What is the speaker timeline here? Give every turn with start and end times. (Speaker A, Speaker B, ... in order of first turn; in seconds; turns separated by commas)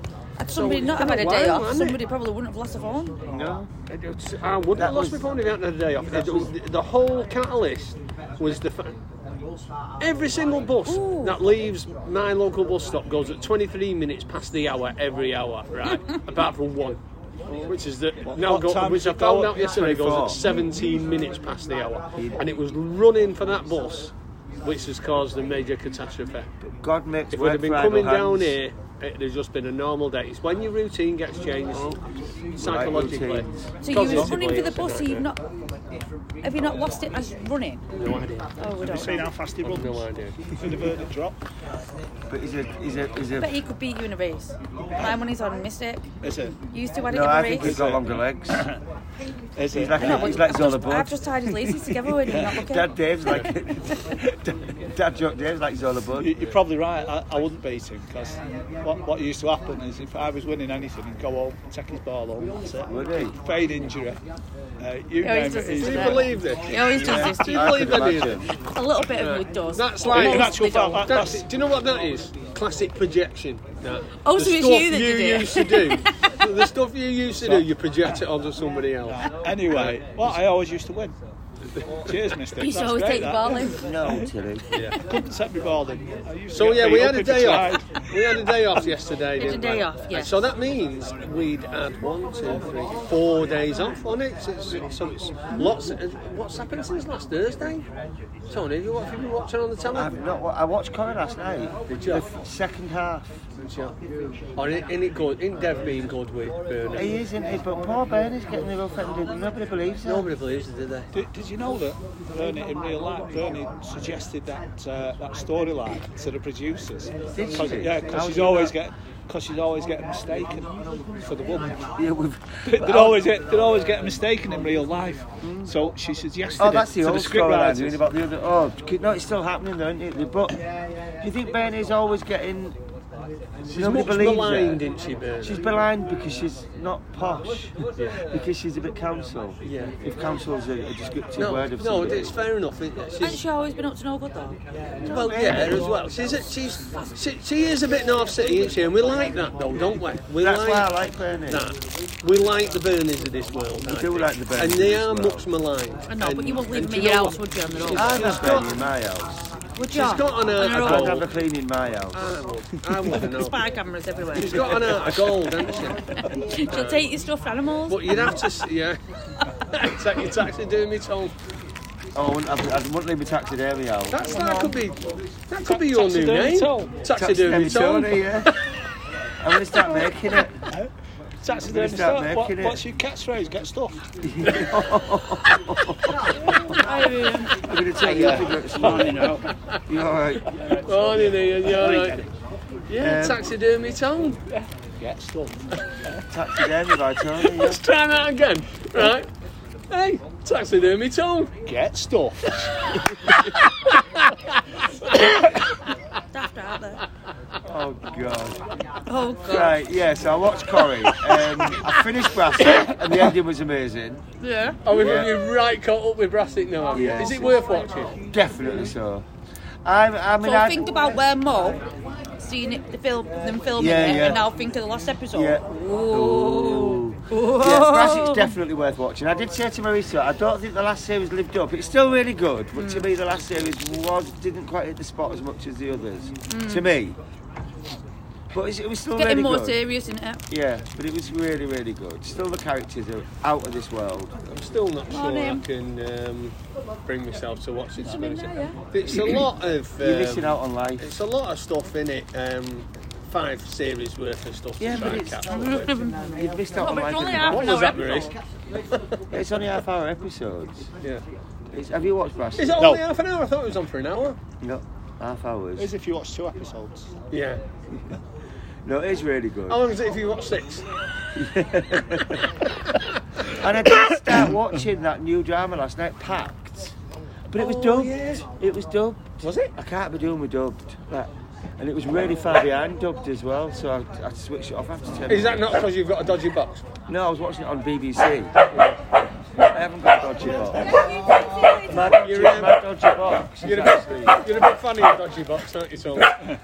Speaker A: 0.4-3.2, Speaker B: 0.5-2.0, Speaker C: 3.2-3.7, Speaker B: 3.9-9.0, Speaker C: 4.8-5.2, Speaker C: 6.1-6.5, Speaker B: 10.0-17.0, Speaker A: 10.9-11.4, Speaker D: 17.5-19.7, Speaker B: 17.7-26.5, Speaker C: 19.6-20.4, Speaker C: 22.2-22.4, Speaker C: 26.7-28.6, Speaker B: 27.3-35.2, Speaker C: 32.6-33.6, Speaker A: 33.8-35.4, Speaker D: 34.1-34.4, Speaker A: 36.4-37.8, Speaker B: 37.9-38.5, Speaker A: 38.6-39.3, Speaker D: 38.8-41.4, Speaker B: 39.6-40.4, Speaker C: 42.3-43.6, Speaker A: 43.4-46.0, Speaker D: 46.2-46.6, Speaker A: 46.7-47.8, Speaker C: 47.1-48.6, Speaker D: 47.6-48.8, Speaker D: 49.6-50.5, Speaker C: 49.7-56.3, Speaker A: 50.0-52.9, Speaker D: 56.1-64.2, Speaker C: 62.9-63.4, Speaker D: 64.8-66.4, Speaker A: 65.2-67.8, Speaker B: 65.8-68.5, Speaker C: 66.8-68.5, Speaker A: 68.7-71.1, Speaker B: 69.1-80.0, Speaker D: 70.1-71.5, Speaker A: 74.2-76.4, Speaker D: 77.4-77.7, Speaker D: 79.1-81.2, Speaker D: 82.0-84.3, Speaker A: 82.6-83.9, Speaker C: 83.6-84.7, Speaker B: 84.7-85.0, Speaker D: 85.0-88.0, Speaker B: 86.5-97.9, Speaker A: 89.4-90.4, Speaker B: 98.5-100.2, Speaker C: 99.9-103.3, Speaker B: 102.0-102.3, Speaker B: 103.6-104.0, Speaker B: 104.6-107.2, Speaker C: 106.9-110.3, Speaker B: 110.1-111.1, Speaker D: 111.1-121.8, Speaker C: 117.3-118.7, Speaker C: 122.0-123.3, Speaker D: 122.7-128.0, Speaker C: 125.4-125.8, Speaker C: 126.6-130.6, Speaker C: 131.2-132.8, Speaker C: 133.7-134.8, Speaker B: 133.7-135.6, Speaker C: 135.4-137.8, Speaker B: 138.0-138.2, Speaker C: 138.3-142.3, Speaker B: 139.6-139.9, Speaker B: 141.4-143.4, Speaker A: 143.2-144.6, Speaker C: 145.0-145.9, Speaker B: 145.1-150.9, Speaker C: 150.4-151.7, Speaker B: 151.5-158.7, Speaker C: 153.9-155.4, Speaker A: 156.1-158.2, Speaker D: 157.9-158.7, Speaker C: 157.9-159.4, Speaker A: 159.8-161.2, Speaker B: 159.9-161.3, Speaker C: 160.6-162.4, Speaker B: 162.1-163.6, Speaker A: 163.2-165.0, Speaker B: 164.3-166.1, Speaker C: 164.6-165.3, Speaker A: 166.2-168.6, Speaker B: 166.7-167.0, Speaker B: 167.9-169.0, Speaker B: 169.7-171.3, Speaker C: 172.1-174.2, Speaker B: 174.1-178.5, Speaker A: 174.3-174.7, Speaker D: 174.3-174.7, Speaker D: 175.6-177.0, Speaker C: 177.1-178.5, Speaker D: 177.5-177.8, Speaker C: 179.4-180.6, Speaker D: 181.4-184.1, Speaker C: 181.6-182.8, Speaker C: 184.2-186.8, Speaker A: 186.4-187.6, Speaker C: 187.5-190.5, Speaker B: 188.0-189.8, Speaker D: 188.0-189.5, Speaker D: 190.5-192.3, Speaker B: 190.8-192.3, Speaker B: 192.9-194.4, Speaker C: 193.0-193.4, Speaker D: 195.0-196.2, Speaker C: 196.3-197.8, Speaker B: 197.2-199.3, Speaker B: 199.9-201.5, Speaker D: 201.7-202.8, Speaker B: 203.9-204.3, Speaker B: 205.0-205.3, Speaker A: 206.3-207.0, Speaker C: 207.7-208.6, Speaker A: 209.1-209.8, Speaker C: 209.4-214.2, Speaker A: 214.4-214.8, Speaker B: 214.8-218.2, Speaker C: 214.9-215.3, Speaker C: 216.9-217.6, Speaker C: 218.3-219.2, Speaker C: 219.8-220.9, Speaker A: 220.4-221.8, Speaker A: 222.4-228.6, Speaker C: 223.8-224.5, Speaker C: 225.3-237.2, Speaker A: 232.8-233.1, Speaker A: 236.5-236.9, Speaker C: 238.5-239.8, Speaker A: 239.2-240.4, Speaker C: 240.5-244.3, Speaker B: 244.5-255.9, Speaker A: 245.1-245.7, Speaker A: 248.0-248.8, Speaker C: 249.1-249.4, Speaker C: 250.0-251.1, Speaker C: 254.8-257.9, Speaker A: 255.5-258.3, Speaker B: 257.4-258.3, Speaker C: 259.3-260.9, Speaker C: 261.7-262.9, Speaker B: 262.6-264.4, Speaker D: 262.8-263.0, Speaker C: 264.6-265.9, Speaker D: 265.8-267.1, Speaker B: 267.3-267.6, Speaker C: 268.9-269.8, Speaker B: 269.7-270.9, Speaker C: 271.3-272.5, Speaker C: 273.5-276.9, Speaker C: 277.5-285.8, Speaker A: 277.6-278.2, Speaker B: 277.9-278.4, Speaker B: 279.4-279.7, Speaker B: 285.3-286.9, Speaker C: 287.1-288.5, Speaker B: 288.7-289.0, Speaker C: 289.6-291.0, Speaker A: 290.6-292.1, Speaker C: 291.9-294.4, Speaker B: 291.9-292.8, Speaker B: 293.6-296.4